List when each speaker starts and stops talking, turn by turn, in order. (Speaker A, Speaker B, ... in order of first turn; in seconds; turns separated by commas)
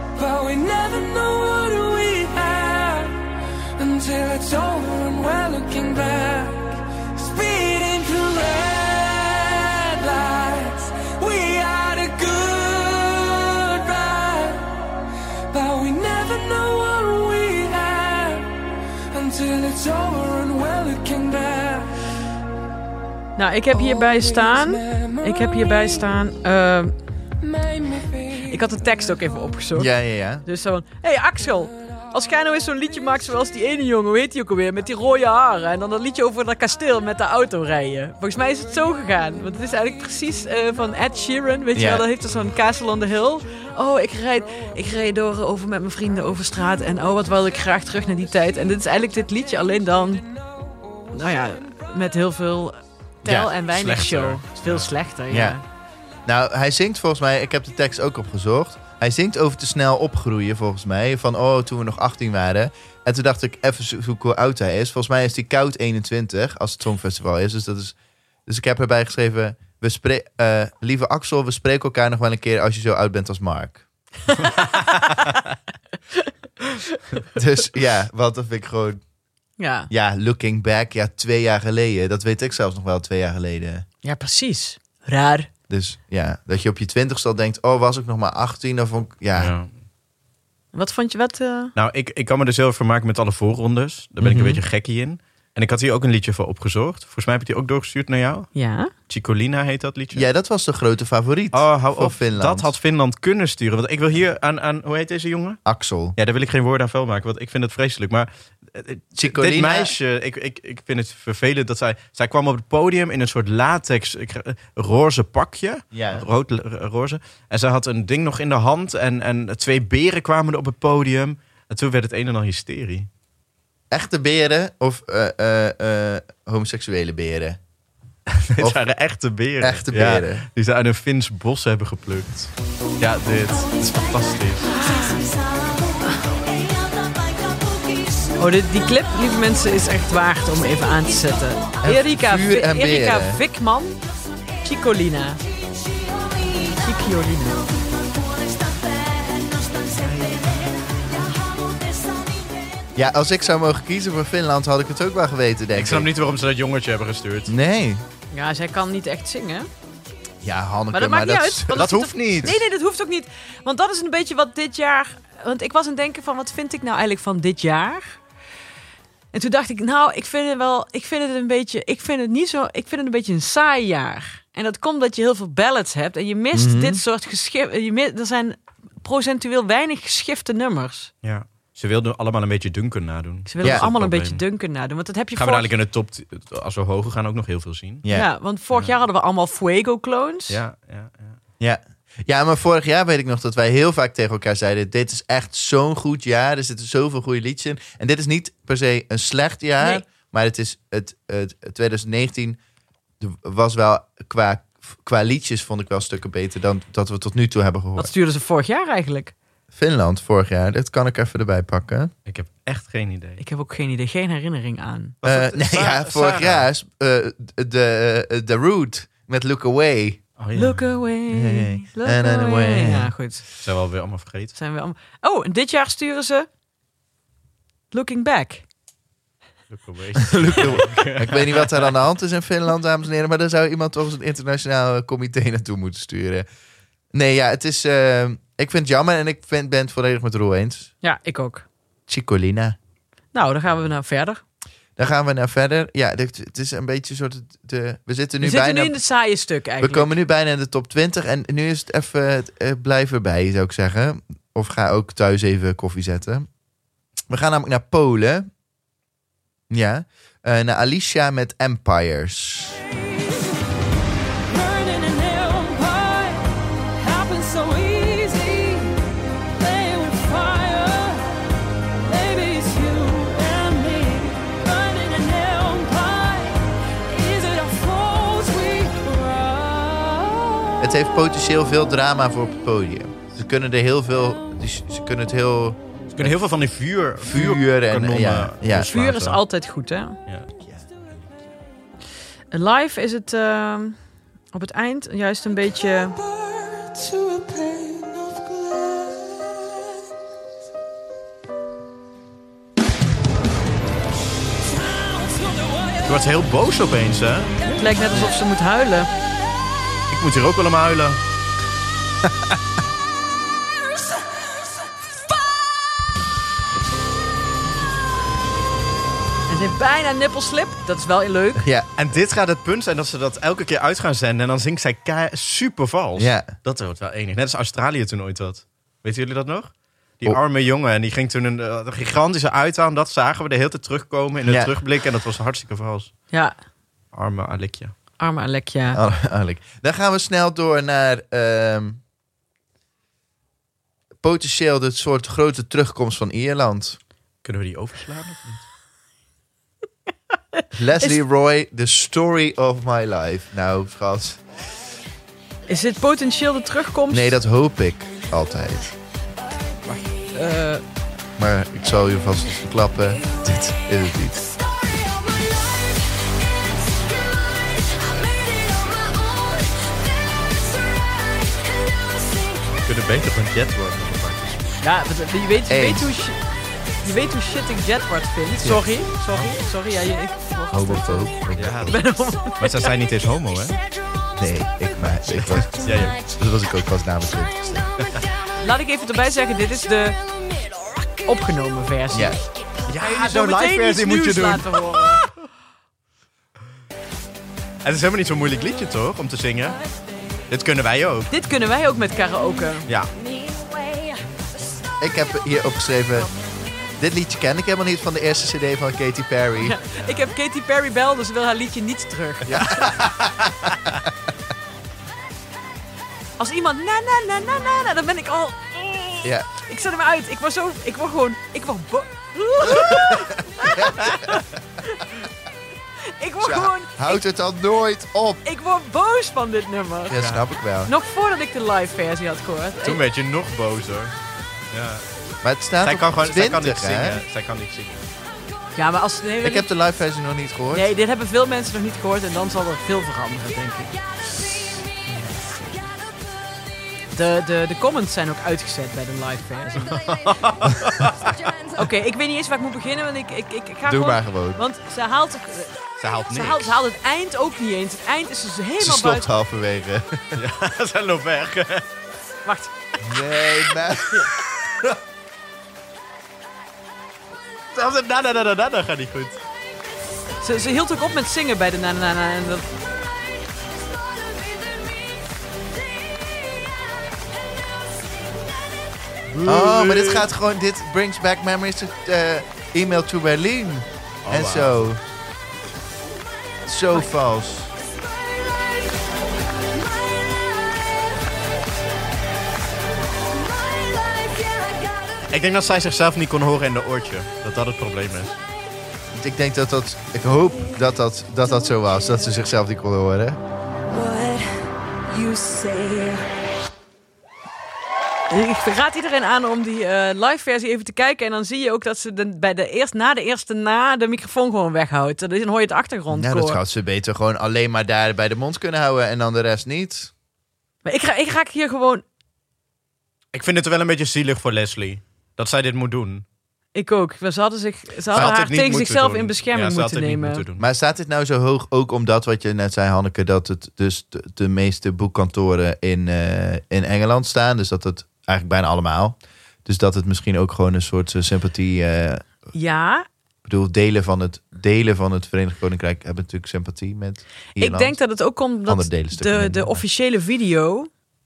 Speaker A: 0.2-3.1, Speaker A: 3.8-14.8, Speaker A: 15.5-18.5, Speaker A: 19.1-21.9, Speaker B: 23.4-26.9, Speaker B: 28.3-29.9, Speaker C: 29.7-30.4, Speaker B: 30.4-50.3, Speaker C: 41.7-42.0, Speaker B: 51.1-55.6, Speaker C: 53.2-53.5, Speaker D: 53.7-54.9, Speaker C: 55.3-55.6, Speaker C: 56.2-68.0, Speaker C: 68.5-73.8, Speaker B: 74.2-75.4, Speaker B: 76.2-77.2, Speaker C: 77.3-79.0, Speaker B: 79.6-79.9, Speaker C: 79.9-83.8, Speaker B: 84.0-85.5, Speaker C: 85.7-89.5, Speaker D: 89.3-89.7, Speaker B: 90.7-91.7, Speaker D: 91.7-98.5, Speaker C: 94.2-94.6, Speaker B: 98.5-98.9, Speaker D: 99.1-100.2, Speaker C: 100.1-102.7, Speaker D: 101.5-105.6, Speaker C: 105.6-106.2, Speaker D: 106.2-123.1, Speaker C: 109.2-110.0, Speaker C: 115.9-116.2, Speaker C: 123.9-127.6, Speaker D: 128.3-134.7, Speaker C: 128.6-128.8, Speaker C: 129.6-130.5, Speaker E: 133.0-139.8, Speaker B: 134.7-135.2, Speaker B: 138.4-144.0, Speaker E: 140.5-141.9, Speaker C: 141.8-143.4, Speaker E: 144.4-144.9, Speaker B: 144.6-145.4, Speaker E: 145.4-152.9, Speaker B: 146.8-147.6, Speaker C: 152.9-156.1, Speaker D: 155.7-157.5, Speaker C: 157.5-158.0, Speaker B: 158.3-159.7, Speaker C: 160.4-162.5, Speaker B: 160.9-168.2, Speaker D: 161.7-162.6, Speaker B: 169.3-181.1, Speaker C: 176.5-177.0, Speaker D: 181.2-184.4, Speaker B: 183.4-185.7, Speaker C: 183.6-183.9, Speaker D: 185.3-188.0, Speaker B: 188.1-190.6, Speaker D: 190.5-191.4, Speaker C: 191.6-202.6, Speaker C: 203.2-208.1, Speaker B: 208.0-209.3, Speaker C: 209.7-212.1, Speaker D: 212.2-213.4, Speaker B: 213.4-215.2, Speaker D: 215.2-216.7, Speaker C: 215.2-220.2, Speaker D: 220.4-220.9, Speaker B: 220.5-223.4, Speaker C: 221.3-223.1, Speaker D: 223.6-224.5, Speaker B: 224.5-226.5, Speaker B: 227.9-228.7, Speaker D: 229.7-231.9, Speaker C: 230.2-236.4, Speaker C: 237.1-240.9, Speaker B: 241.0-241.7, Speaker C: 242.1-242.8, Speaker B: 243.3-244.4, Speaker C: 245.0-249.0, Speaker B: 248.4-250.1, Speaker C: 249.8-256.5, Speaker C: 257.3-258.5, Speaker C: 259.7-262.8, Speaker E: 264.5-266.4, Speaker E: 267.0-268.9, Speaker E: 269.6-271.3, Speaker E: 272.0-280.6, Speaker C: 280.8-286.4, Speaker D: 286.1-289.4, Speaker C: 287.2-288.9, Speaker B: 288.9-290.2, Speaker B: 292.5-294.0, Speaker B: 294.5-296.2, Speaker E: 296.7-299.2, Speaker E: 305.2-305.9, Speaker D: 306.0-307.6, Speaker B: 307.7-309.1, Speaker D: 310.1-311.2, Speaker B: 319.5-321.6, Speaker C: 321.6-321.9, Speaker D: 322.0-336.1, Speaker C: 326.1-326.5, Speaker C: 334.4-334.7, Speaker D: 337.1-337.9, Speaker B: 338.2-339.0, Speaker C: 338.9-342.0, Speaker C: 344.2-347.0, Speaker D: 347.4-348.6, Speaker C: 350.7-354.4, Speaker B: 355.7-357.4, Speaker C: 357.1-358.9, Speaker B: 359.9-360.8, Speaker C: 361.4-364.4, Speaker E: 364.9-372.7, Speaker D: 372.8-374.8, Speaker B: 374.8-376.4, Speaker C: 375.7-376.1, Speaker B: 377.0-382.9, Speaker C: 380.7-382.0, Speaker D: 381.6-382.1, Speaker D: 382.6-383.8, Speaker E: 383.8-384.8, Speaker C: 384.4-387.8, Speaker D: 385.0-386.2, Speaker E: 385.6-386.3, Speaker E: 387.6-388.5, Speaker B: 388.6-390.2, Speaker E: 390.1-391.3, Speaker B: 391.2-392.4, Speaker D: 392.9-395.3, Speaker B: 393.0-395.2, Speaker D: 397.8-399.8, Speaker D: 400.5-401.3, Speaker B: 401.3-402.9, Speaker E: 403.1-404.2, Speaker C: 405.0-406.3, Speaker C: 407.0-409.8, Speaker B: 409.6-412.9, Speaker D: 409.9-410.3, Speaker C: 412.4-414.0, Speaker D: 412.6-413.5, Speaker B: 416.4-425.1, Speaker C: 422.6-424.4, Speaker B: 426.1-427.2, Speaker C: 426.4-428.4, Speaker B: 428.4-430.2, Speaker C: 430.1-430.9, Speaker D: 430.1-430.4, Speaker B: 430.9-433.0, Speaker D: 432.8-434.1, Speaker D: 434.7-435.1, Speaker C: 435.4-437.2, Speaker D: 435.8-438.0, Speaker B: 438.8-439.7, Speaker C: 439.4-440.9, Speaker B: 440.7-443.9, Speaker B: 447.1-450.0, Speaker D: 449.8-451.4, Speaker E: 450.0-450.4, Speaker E: 451.4-451.8, Speaker B: 451.8-459.3, Speaker C: 453.9-454.6, Speaker D: 456.0-456.8, Speaker C: 458.8-460.4, Speaker D: 460.4-461.9, Speaker B: 462.4-463.3, Speaker C: 463.0-464.3, Speaker B: 463.9-464.3, Speaker D: 467.7-469.4, Speaker B: 470.4-472.7, Speaker D: 479.3-480.3, Speaker C: 479.4-485.0, Speaker D: 484.2-484.9, Speaker C: 486.6-487.7, Speaker E: 493.6-495.2, Speaker D: 495.3-498.4, Speaker C: 499.1-503.4, Speaker E: 503.9-506.3, Speaker B: 508.3-516.6, Speaker C: 516.1-520.1, Speaker B: 520.8-522.0, Speaker D: 523.3-526.2, Speaker B: 526.7-530.4, Speaker D: 528.1-530.6, Speaker C: 530.6-542.2, Speaker B: 542.5-543.0, Speaker C: 543.4-548.0, Speaker B: 547.6-550.9, Speaker C: 548.7-549.8